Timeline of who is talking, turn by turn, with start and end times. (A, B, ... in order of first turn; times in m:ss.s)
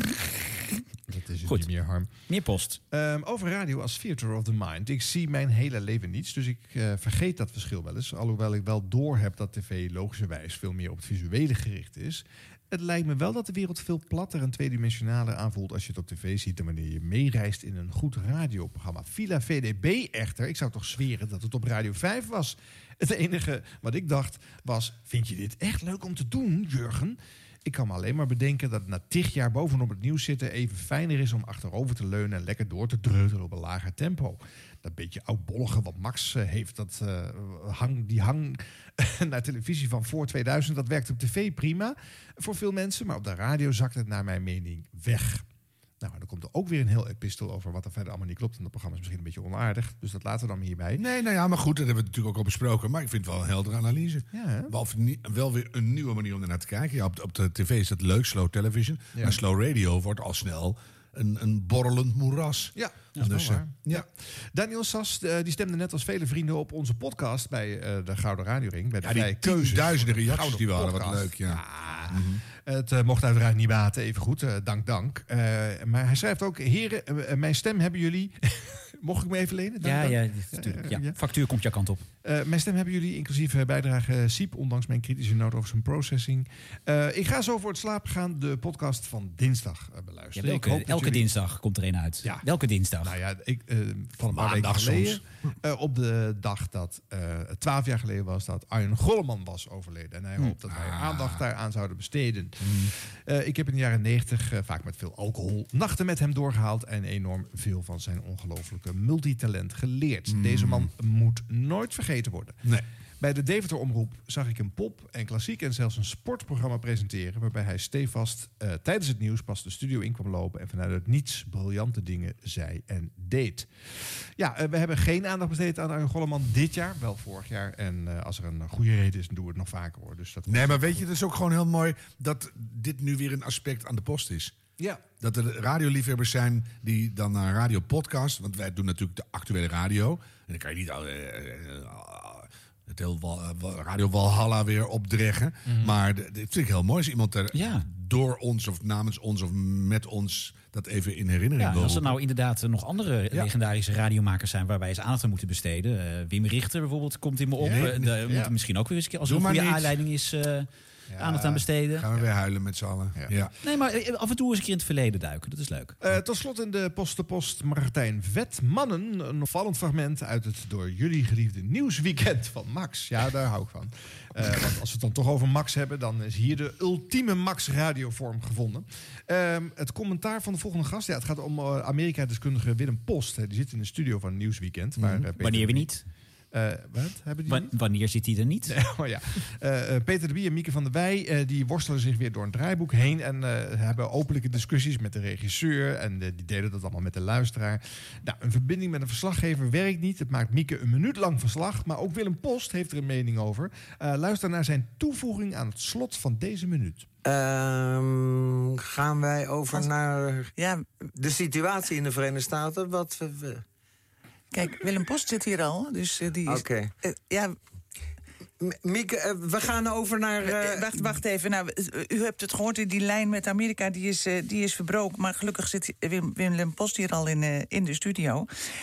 0:01.1-0:02.1 A
0:02.3-0:02.8 B
0:02.9-0:45.4 A
0:46.0-0:51.0 A
0:51.0-1:04.0 C
0:54.3-0:54.7 A
0:59.1-0:59.4 A
1:02.8-1:21.2 A
1:09.0-1:12.4 C
1:19.8-1:22.1 B
1:22.2-1:31.3 A
1:30.4-1:33.1 B
1:33.0-1:52.6 A
1:34.3-1:35.2 C
1:40.7-1:41.4 C
1:42.6-1:42.9 C
1:50.3-1:50.9 C
1:53.2-2:11.1 A
2:10.5-2:32.2 C
2:25.6-2:26.0 A
2:27.5-2:27.8 B
2:31.6-2:42.1 B
2:37.6-2:38.0 C
2:37.6-2:38.5 A
2:39.2-2:40.0 C
2:41.1-2:41.6 A
2:42.0-2:43.5 C
2:43.6-2:46.0 B
2:46.0-3:05.9 A
3:05.0-3:05.3 C
3:05.4-3:06.1 B
3:06.5-3:07.7 A
3:07.5-3:08.8 B
3:08.7-3:27.1 A
3:27.2-3:30.5 D
3:30.6-3:30.8 E
3:31.1-3:33.6 D
3:34.5-3:37.5 E
3:36.5-3:36.9 D
3:38.6-3:41.1 D
3:40.4-3:48.5 E